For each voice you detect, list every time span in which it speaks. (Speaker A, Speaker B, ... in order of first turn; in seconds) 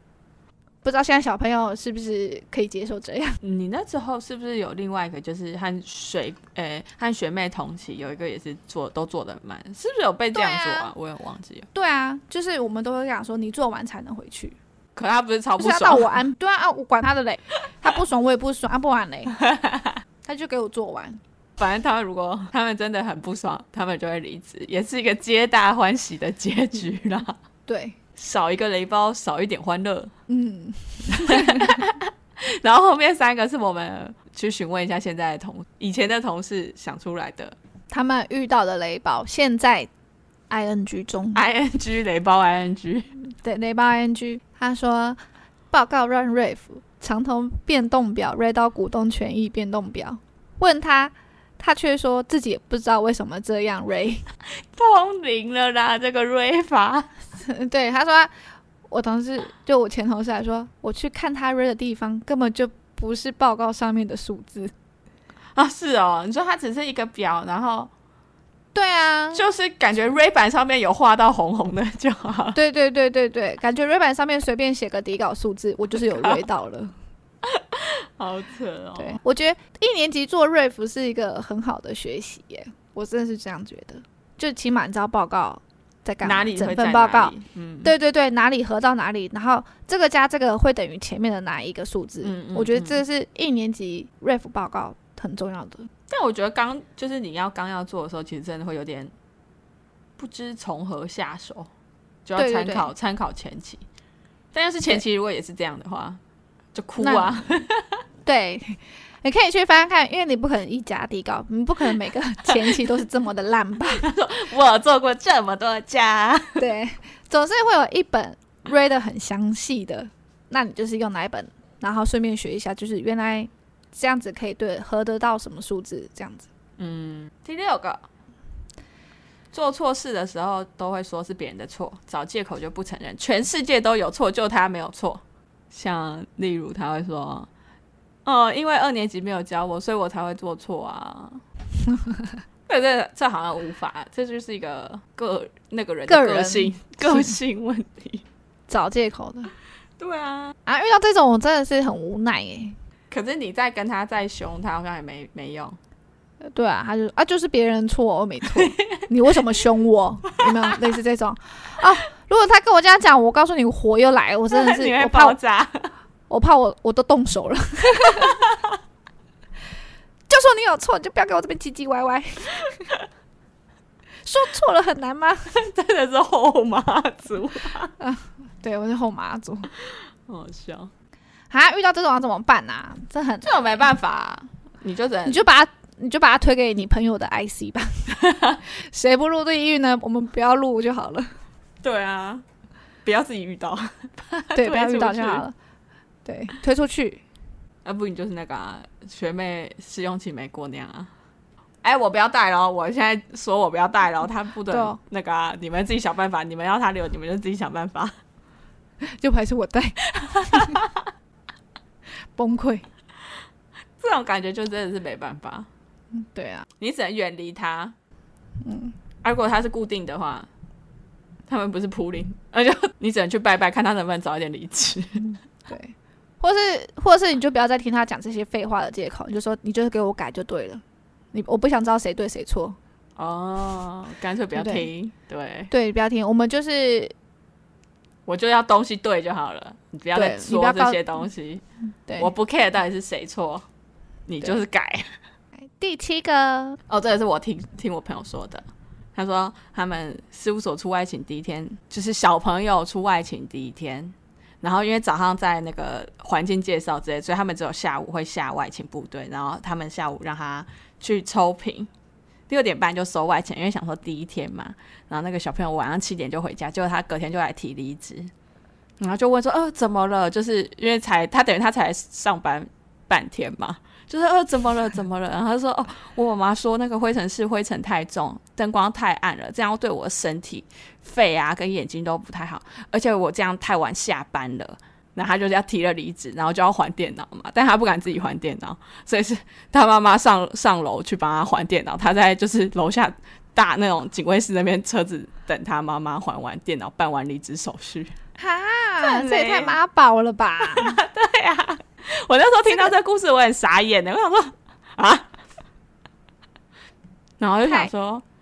Speaker A: 0.8-3.4, 10.3-10.9, 11.7-14.6, 15.6-19.4, 20.2-21.2, 27.7-27.9, 30.3-31.8, 37.9-39.9, 40.5-41.4, 43.4-45.2, 45.7-54.2, 57.4-58.3, 58.9-64.7, 68.7-69.4, 72.5-76.9, 79.0-95.9, 102.3-102.9, 107.0-107.5, 108.2-114.0, 116.6-126.5, 146.1-147.3, 148.7-149.5, 150.7-152.8, 156.4-165.3, 166.3-168.4, 170.3-172.8, 174.2-175.5, 178.0-179.7, 181.5-183.6, 185.2-188.1, 188.7-191.3, 194.5-195.5, 196.2-197.2, 204.7-205.0, 209.0-210.8, 212.3-212.8, 216.1-216.7, 218.6-218.9, 225.7-230.8, 231.3-232.8, 234.5-234.9, 235.7-237.1, 240.1-241.1, 245.7-246.8, 298.4-301.0, 307.6-307.9
Speaker B: 3.4-11.7, 14.9-16.2, 19.4-20.0, 21.6-27.4, 28.1-30.1, 31.1-37.5, 41.3-43.1, 54.5-57.1, 65.5-67.9, 69.3-72.6, 76.1-76.4, 77.4-79.2, 86.2-87.9, 92.2-93.0, 96.1-99.1, 100.2-101.7, 102.2-103.8, 104.5-106.2, 106.7-108.0, 112.5-112.8, 113.9-116.6, 126.8-128.0, 129.5-137.5, 138.2-141.4, 142.7-148.2, 150.0-150.5, 153.1-155.8, 158.5-159.0, 160.4-160.7, 164.5-165.9, 168.0-168.8, 175.5-177.9, 179.9-180.9, 183.4-185.4, 188.2-188.6, 191.8-192.4, 193.0-195.4, 197.8-201.1, 201.8-208.1, 210.5-210.9, 214.0-215.7, 216.8-217.9, 219.2-220.5, 221.5-225.3, 233.2-235.7, 238.2-241.6, 242.2-243.7, 244.3-245.1, 246.9-248.6, 249.1-261.9, 262.5-268.3, 269.0-298.1, 299.0-299.8, 300.6-305.3, 307.4-308.2